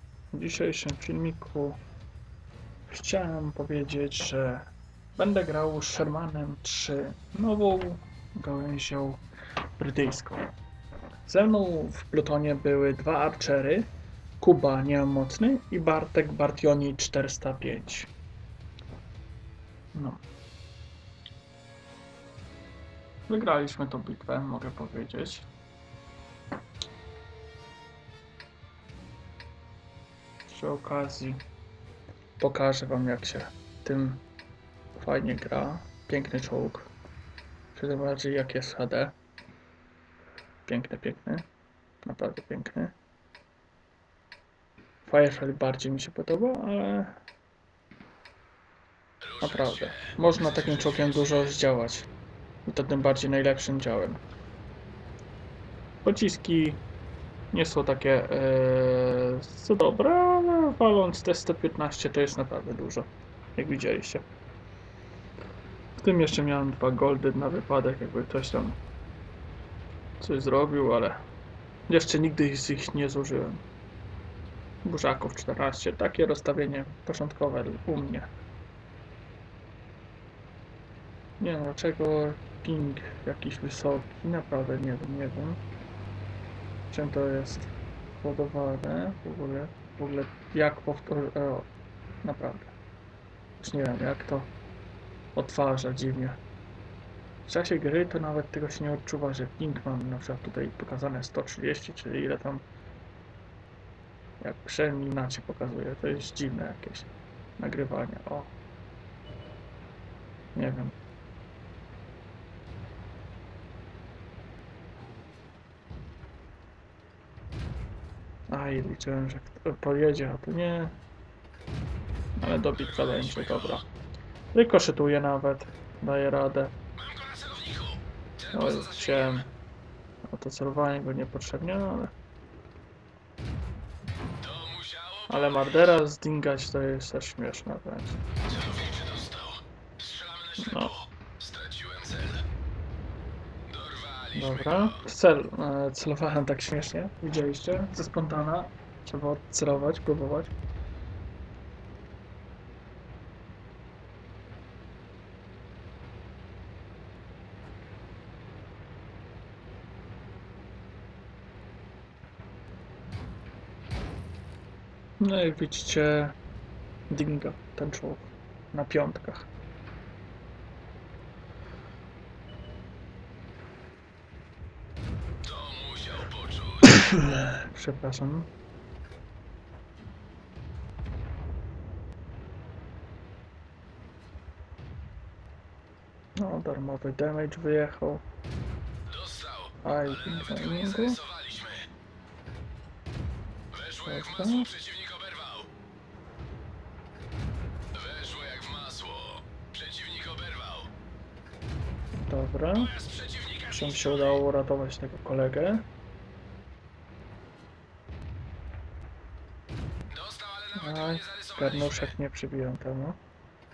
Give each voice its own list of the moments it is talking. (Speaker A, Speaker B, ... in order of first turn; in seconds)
Speaker A: 0.3-1.8, 2.9-9.2, 9.8-10.5, 11.3-13.9, 14.4-18.1, 19.9-20.2, 23.3-25.5, 30.5-31.4, 32.4-34.2, 35.0-36.9, 37.8-39.1, 40.7-41.5, 42.0-43.0, 45.0-47.2, 49.4-52.1, 52.7-54.2, 56.0-56.8, 57.5-64.2, 66.0-68.8, 70.2-71.2, 71.9-73.6, 74.8-78.3, 81.4-85.6, 86.9-91.7, 92.2-92.7, 93.6-94.5, 95.3-96.4, 97.5-102.7, 104.4-108.5, 110.5-111.0, 118.5-121.0, 122.4-123.9, 124.5-126.7, 128.5-129.5, 130.3-132.1, 135.3-138.2, 140.6-140.9, 144.3-150.5, 165.2-166.4, 167.1-169.5, 176.8-178.5, 186.4-188.2, 189.8-191.2, 194.1-194.7, 202.2-203.0, 203.6-205.9, 210.8-213.2
Speaker B: 127.0-129.3, 134.4-135.4, 138.5-142.4, 143.7-144.8, 175.4-176.8, 189.1-189.8, 190.4-191.9, 193.7-195.7, 197.9-200.9, 203.0-203.7, 210.1-211.7